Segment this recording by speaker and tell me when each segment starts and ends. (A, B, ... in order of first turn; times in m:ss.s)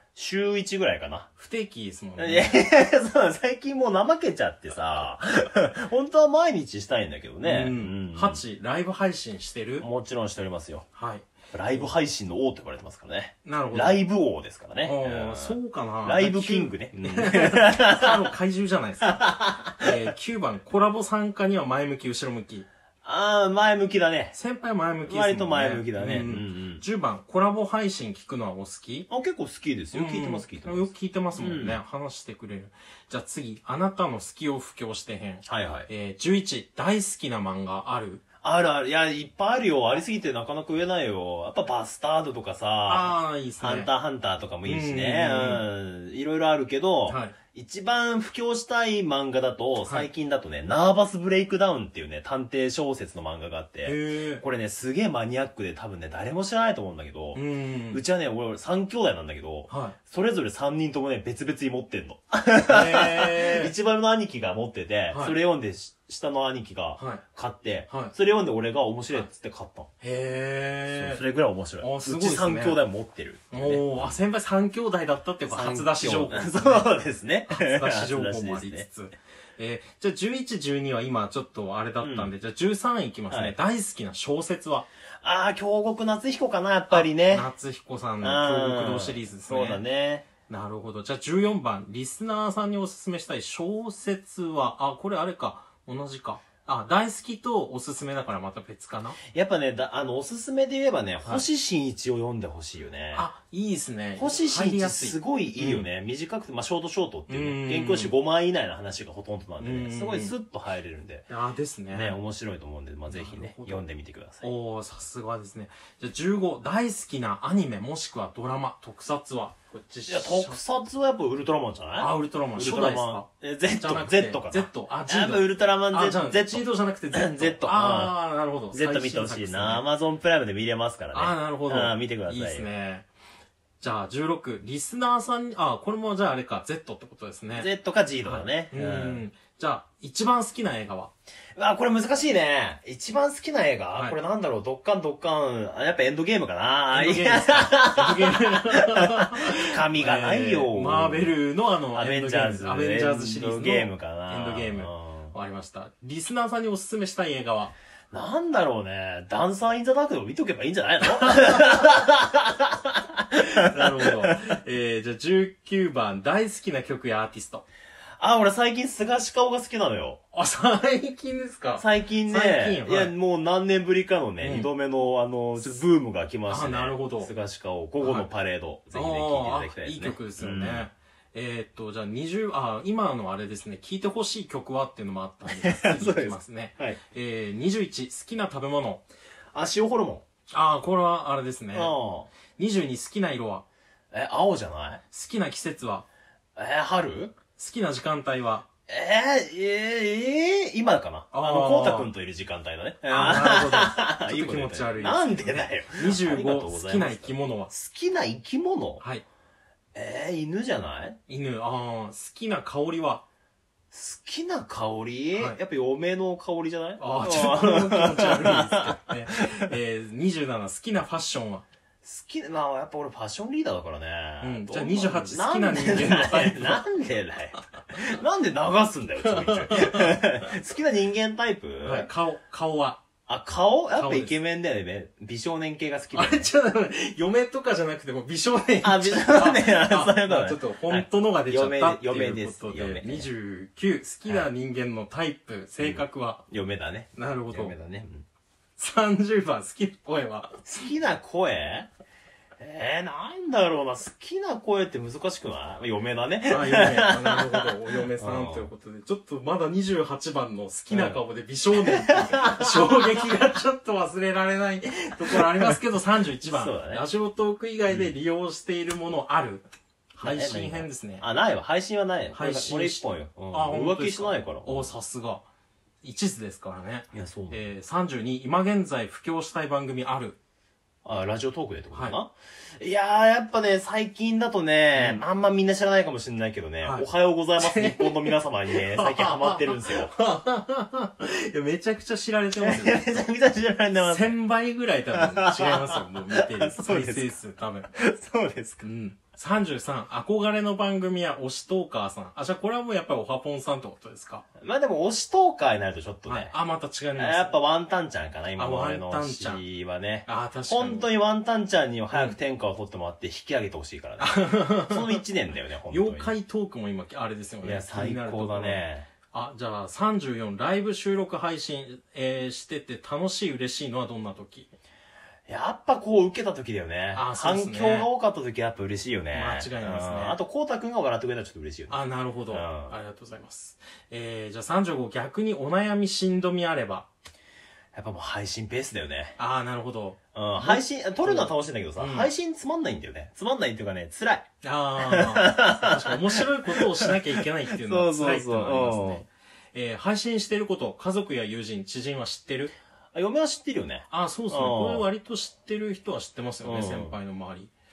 0:00.2-0:01.3 A
0:01.4-0:02.5 B
0:02.2-0:08.4 A
0:07.4-0:09.9 B
0:09.8-0:10.8 A
0:11.0-0:11.8 B
0:11.5-0:18.1 A
0:13.4-0:14.0 B
0:14.8-0:19.2 B
0:19.0-0:19.8 A
0:19.8-0:22.7 B
0:23.0-0:24.4 A
0:24.3-0:29.1 B
0:25.0-0:26.8 A
0:29.1-0:31.8 A
0:29.9-0:38.2 B
0:35.4-0:35.9 A
0:38.4-1:09.9 A
0:42.8-0:43.9 B
0:44.6-0:45.6 B
0:47.1-0:47.3 B
0:53.8-0:54.4 B
0:57.3-0:58.0 B
0:59.7-1:00.0 B
1:02.7-1:03.7 B
1:05.1-1:05.4 B
1:07.0-1:07.2 B
1:10.0-1:11.2 B
1:10.9-1:14.2 A
1:11.8-1:12.8 B
1:13.5-1:16.9 B
1:15.5-1:18.8 A
1:17.5-1:24.9 B
1:22.0-1:22.3 A
1:23.3-1:23.6 A
1:25.2-1:27.5 A
1:26.9-1:29.8 B
1:28.2-1:30.2 A
1:30.5-1:39.2 B
1:39.2-1:43.3 A
1:43.1-1:45.9 B
1:44.2-1:51.3 A
1:47.3-1:48.1 B
1:49.6-1:50.3 B
1:51.3-1:52.2 B
1:51.9-1:54.5 A
1:53.1-1:53.8 B
1:54.4-2:00.6 B
2:00.1-2:08.1 A
2:02.0-2:09.8 B
2:08.7-2:12.7 A
2:11.1-2:13.1 B
2:13.8-2:17.7 B
2:17.5-2:19.2 A
2:18.2-2:21.1 B
2:21.6-2:31.3 A
2:26.9-2:37.7 B
2:31.9-2:35.3 A
2:38.1-2:43.0 A
2:41.2-2:41.7 B
2:43.5-2:44.3 A
2:43.6-2:47.6 B
2:48.2-2:50.2 A
2:50.3-2:53.1 B
2:51.8-3:00.9 A
2:54.4-2:54.7 B
2:55.6-2:55.8 B
2:56.5-2:57.3 B
2:58.0-2:58.3 B
2:58.9-3:09.0 B
3:05.5-3:07.0 A
3:09.5-3:10.2 A
3:10.5-3:11.9 B
3:11.7-3:12.3 A
3:12.5-3:13.6 B
3:14.1-3:15.0 A
3:15.1-3:16.0 B
3:16.6-3:17.4 A
3:17.6-3:18.6 B
3:18.9-3:29.0 A
3:21.3-3:22.1 B
3:23.1-3:27.7 B
3:29.9-3:31.2 A
3:31.3-3:33.2 B
3:33.9-3:39.6 A
3:37.0-3:41.6 B
3:42.0-3:52.1 A
3:44.4-3:46.8 B
3:49.2-3:50.3 B
3:51.8-3:53.0 B
3:53.2-3:56.5 A
3:54.0-3:54.3 B
3:56.1-4:06.4 B
3:58.8-4:03.3 A
4:05.8-4:08.2 A
4:07.2-4:07.7 B
4:08.8-4:10.6 B
4:10.6-4:11.9 A
4:12.6-4:18.7 A
4:16.5-4:29.6 B
4:20.9-4:21.2 A
4:21.8-4:23.0 A
4:25.4-4:25.7 A
4:26.4-4:27.0 A
4:27.9-4:28.1 A
4:30.2-4:31.2 B
4:30.2-4:34.9 A
4:32.3-4:35.4 B
4:36.0-4:40.4 B
4:37.1-4:37.7 A
4:41.0-4:50.1 A
4:41.9-4:42.2 B
4:44.9-4:45.2 B
4:46.8-4:47.1 B
4:47.6-4:53.2 B
4:52.6-4:54.3 A
4:54.0-4:57.9 B
4:55.1-4:57.4 A
4:57.9-4:58.8 A
4:58.8-5:04.4 B
5:04.6-5:06.5 A
5:06.3-5:07.6 B
5:07.2-5:16.3 A
5:08.6-5:09.6 B
5:10.3-5:11.1 B
5:14.2-5:15.2 B
5:15.9-5:24.7 B
5:17.6-5:19.1 A
5:25.5-5:32.0 A
5:27.1-5:28.1 B
5:29.3-5:30.4 B
5:31.9-5:37.1 B
5:32.5-5:33.0 A
5:37.9-5:39.4 A
5:39.4-5:42.3 B
5:40.3-5:44.5 A
5:44.6-5:52.7 B
5:45.0-5:49.2 A
5:53.1-5:55.1 A
5:54.1-5:57.7 B
5:56.6-5:57.2 A